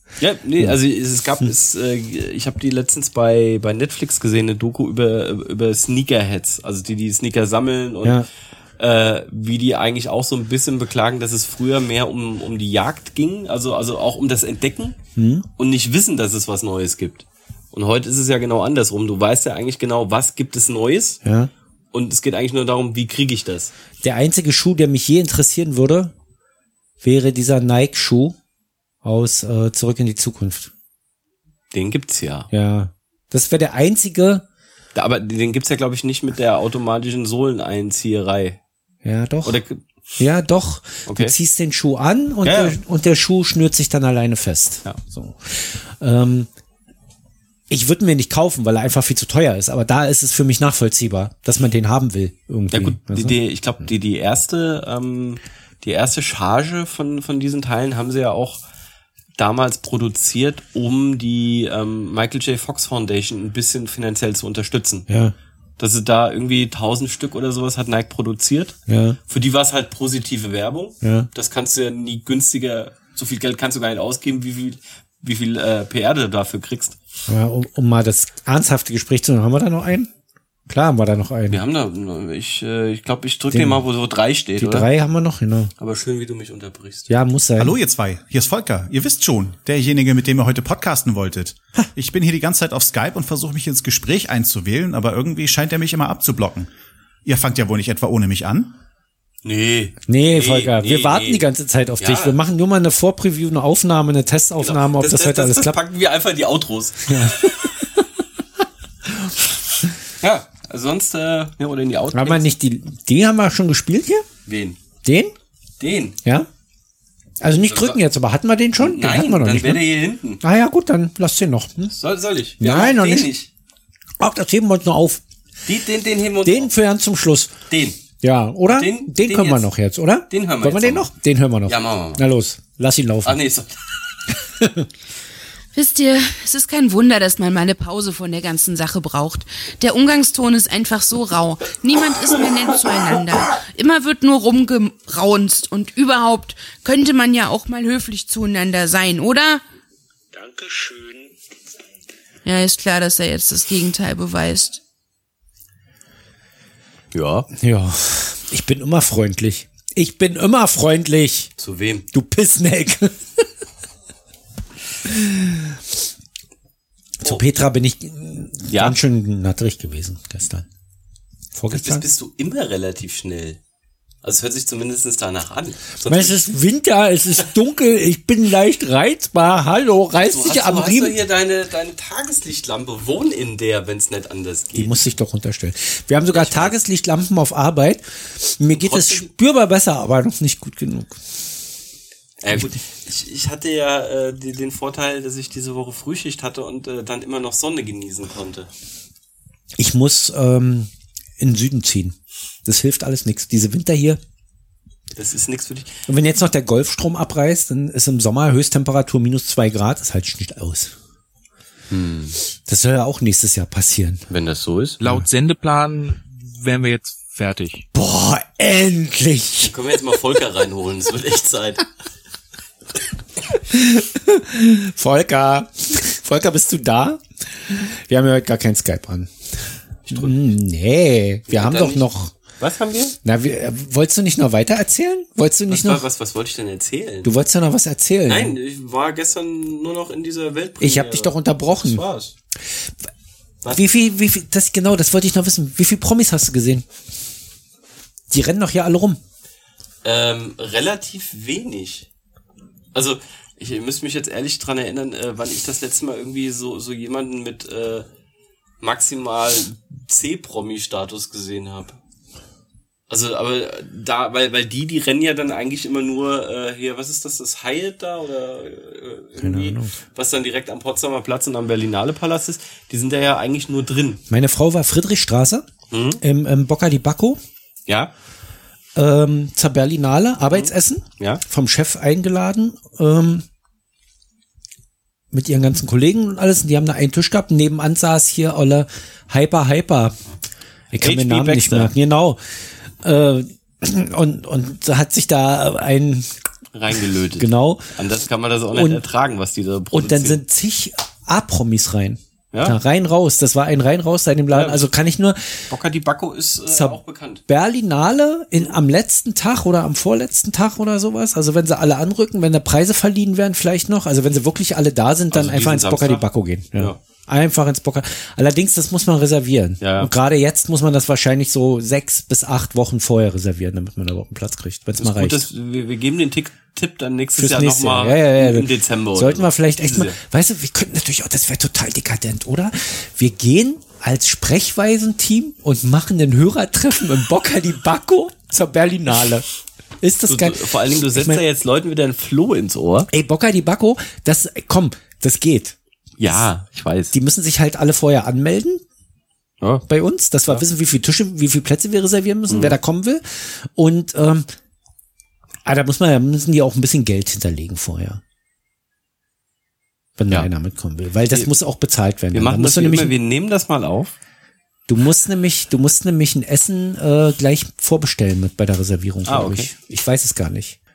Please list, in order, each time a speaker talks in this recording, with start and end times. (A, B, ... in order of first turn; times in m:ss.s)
0:00.2-0:08.2 A
0:08.8-0:15.0 A
0:15.2-0:15.5 B
0:15.6-0:21.2 A
0:21.2-0:21.5 B
0:21.9-0:23.7 A
0:24.0-0:26.1 B
0:27.0-0:28.4 B
0:29.0-0:30.7 B
0:31.7-0:32.5 A
0:32.5-0:34.4 B
0:35.0-0:38.6 A
0:39.0-0:39.6 B
0:39.4-0:39.8 A
0:40.2-0:46.5 B
0:41.1-0:41.4 A
0:42.4-0:42.8 A
0:47.7-0:53.4 B
0:52.7-0:58.6 A
0:59.4-1:05.1 A
1:05.1-1:05.4 B
1:05.8-1:08.8 A
1:08.9-1:09.2 B
1:09.3-1:17.0 A
1:11.0-1:11.3 B
1:17.3-1:20.1 B
1:20.7-1:21.6 B
1:21.5-1:24.9 A
1:23.5-1:23.8 B
1:24.6-1:25.7 B
1:25.8-1:27.1 A
1:27.1-1:27.8 B
1:27.6-1:36.7 C
1:37.2-1:38.7 C
1:39.4-1:41.5 A
1:40.1-1:45.8 B
1:42.0-1:42.4 A
1:44.6-1:47.8 A
1:47.1-1:47.9 B
1:50.2-1:52.4 A
1:52.1-1:54.3 B
1:54.5-1:54.8 A
1:55.0-1:55.3 B
1:55.8-1:56.2 A
1:57.4-1:59.8 B
1:57.6-1:58.0 A
1:58.8-2:00.4 A
2:00.4-2:02.0 B
2:01.9-2:03.5 A
2:02.6-2:03.3 B
2:04.2-2:05.2 B
2:05.7-2:06.7 A
2:06.4-2:07.5 B
2:07.7-2:08.0 A
2:08.2-2:13.4 B
2:08.7-2:09.7 A
2:10.3-2:11.1 A
2:11.7-2:12.2 A
2:13.2-2:13.7 A
2:14.6-2:14.9 B
2:15.7-2:29.6 D
2:32.4-2:34.8 D
2:37.1-2:37.5 A
2:37.5-2:41.5 B
2:41.6-2:42.1 A
2:42.1-2:43.4 B
2:45.0-2:45.8 B
2:47.2-2:50.7 B
2:48.7-2:49.0 A
2:51.6-2:52.0 B
2:51.7-2:53.6 A
2:54.2-2:56.5 A
2:56.1-3:01.2 B
3:00.2-3:05.1 A
3:04.8-3:11.2 B
3:06.3-3:06.8 A
3:08.7-3:09.3 A
3:12.4-3:18.7 A
3:19.8-3:24.2 B
3:25.2-3:26.0 A
3:26.1-3:30.9 B
3:31.9-3:32.4 A
3:32.7-3:34.2 B
3:34.3-3:35.0 A
3:35.0-3:37.9 E
3:37.9-3:39.7 B
3:39.6-3:41.8 A
3:43.7-3:49.3 B
3:50.1-3:50.5 A
3:50.1-3:52.3 B
3:51.5-3:52.0 A
3:52.6-3:53.2 A
3:53.2-3:56.0 B
3:55.7-3:57.3 A
3:57.2-3:58.6 B
3:58.3-4:02.4 A
4:00.8-4:02.0 B
4:03.7-4:06.9 B
4:08.3-4:09.2 B
4:10.0-4:12.1 A
4:12.9-4:18.1 A
4:18.8-4:22.0 A
4:23.1-4:34.2 A
4:29.4-4:29.9 B
4:34.3-4:35.7 B
4:35.9-4:36.2 A
4:36.2-4:37.4 B
4:39.0-4:43.4 B
4:40.4-4:41.4 A
4:45.3-4:50.2 B
4:50.9-4:52.4 B
4:51.0-4:51.9 A
4:53.0-4:56.3 B
4:56.7-5:00.4 A
4:57.4-4:57.9 B
4:58.7-4:59.0 B
4:59.9-5:05.7 B
5:02.5-5:02.8 A
5:04.5-5:04.9 A
5:05.7-5:07.4 A
5:06.7-5:25.5 B
5:15.3-5:17.0 A
5:19.8-5:20.1 A
5:25.0-5:30.2 A
5:27.4-5:39.5 B
5:40.0-5:41.4 B
5:40.3-5:43.1 A
5:43.1-5:45.8 B
5:46.2-5:47.1 A
5:47.1-5:48.8 B
5:49.9-5:54.5 B
5:52.5-5:52.8 A
5:55.6-5:58.2 B
6:00.2-6:03.1 B
6:02.3-6:04.2 A
6:04.9-6:10.8 B
6:09.3-6:09.7 A